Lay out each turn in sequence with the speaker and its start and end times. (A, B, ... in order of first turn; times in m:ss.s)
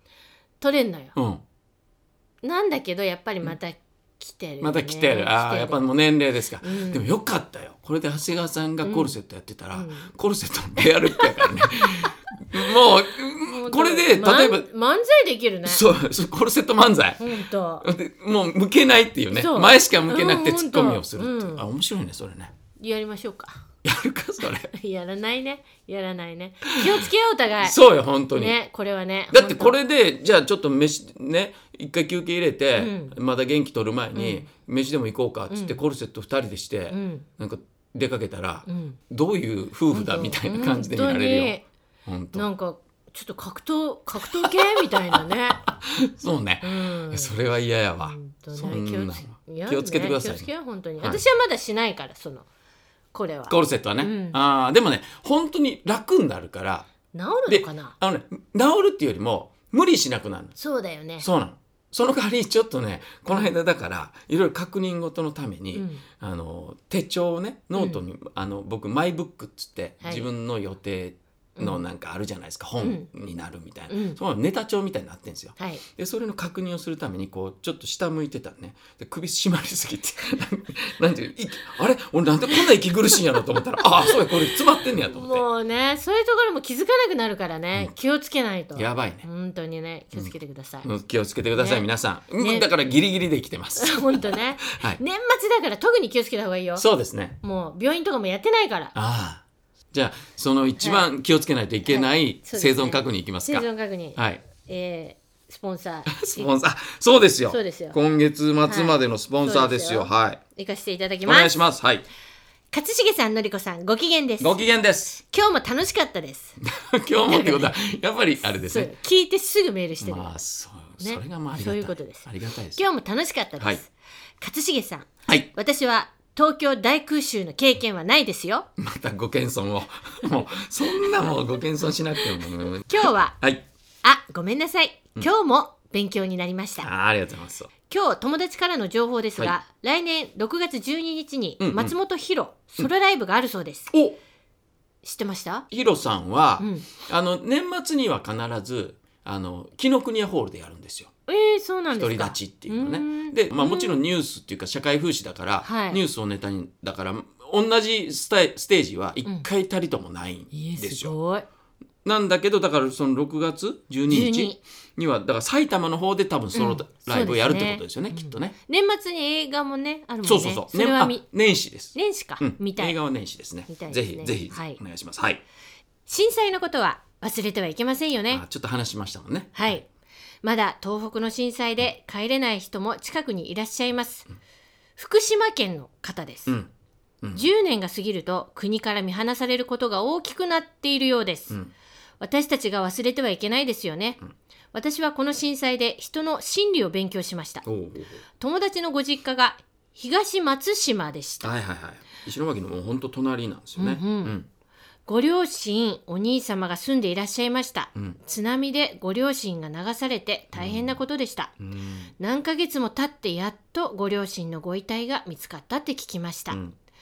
0:00.6-0:01.1 A
0:01.2-0:01.4 B
0:02.4-0:05.8 A
0:04.6-0:14.7 B
0:06.6-0:07.0 A
0:08.8-0:09.1 A
0:09.7-0:10.1 A
0:11.2-0:12.1 A
0:13.4-0:15.8 A
0:15.6-0:17.3 B
0:17.2-0:17.9 A
0:17.8-0:22.5 B
0:19.3-0:21.7 A
0:22.8-0:23.6 A
0:23.8-0:24.7 B
0:24.7-0:27.8 A
0:26.8-0:27.1 B
0:27.6-0:28.6 B
0:28.4-0:29.8 A
0:29.3-0:42.5 B
0:32.8-0:33.2 A
0:34.2-0:34.5 A
0:35.5-0:35.8 A
0:36.9-0:37.3 A
0:38.7-0:39.0 A
0:39.9-0:41.6 A
0:42.3-0:45.6 A
0:44.2-0:50.5 B
0:46.6-0:47.3 A
0:48.0-0:52.5 A
0:53.1-0:54.4 A
0:53.5-0:56.9 B
0:57.1-0:57.9 A
0:57.5-1:00.6 B
1:00.6-1:01.3 A
1:01.2-1:25.4 B
1:05.8-1:06.0 A
1:10.0-1:10.3 A
1:11.6-1:11.8 A
1:12.8-1:13.1 A
1:13.9-1:14.2 A
1:15.6-1:15.8 A
1:23.8-1:24.4 A
1:25.0-1:30.9 A
1:28.8-1:29.3 B
1:30.8-1:35.0 B
1:31.6-1:31.9 A
1:32.4-1:32.7 A
1:33.8-1:36.8 A
1:36.8-1:37.4 B
1:37.4-1:38.9 A
1:39.0-1:44.4 B
1:40.8-1:41.0 A
1:41.9-1:46.5 A
1:46.1-1:50.4 B
1:47.5-1:48.0 A
1:48.7-1:51.5 A
1:51.2-1:52.1 B
1:52.7-1:54.6 A
1:54.4-1:55.2 B
1:55.3-1:56.6 A
1:56.6-1:58.9 B
1:57.2-1:57.7 A
1:58.6-2:00.3 A
2:00.0-2:02.8 B
2:01.0-2:08.7 A
2:08.8-2:13.6 B
2:12.9-2:13.4 A
2:14.0-2:16.9 A
2:16.8-2:17.7 B
2:17.9-2:23.9 A
2:21.6-2:21.9 B
2:23.9-2:24.2 B
2:25.0-2:25.7 A
2:25.7-2:31.1 B
2:26.6-2:26.9 A
2:31.3-2:34.0 A
2:32.0-2:41.2 B
2:35.6-2:36.0 A
2:40.5-2:41.4 A
2:42.0-2:48.6 B
2:44.1-2:44.6 A
2:46.5-2:51.2 A
2:50.2-2:55.4 B
2:51.9-2:53.0 A
2:53.7-2:54.8 A
2:56.1-2:58.4 A
2:58.3-2:59.7 B
2:59.6-2:59.9 A
3:00.4-3:04.3 A
3:05.0-3:06.5 A
3:07.3-3:11.6 A
3:12.2-3:14.2 A
3:14.7-3:17.6 A
3:17.6-3:18.2 B
3:18.4-3:21.5 A
3:21.4-3:24.5 B
3:23.8-3:24.3 A
3:25.1-3:31.5 A
3:30.5-3:31.0 B
3:31.6-3:32.1 B
3:32.2-3:36.6 A
3:36.5-3:36.8 B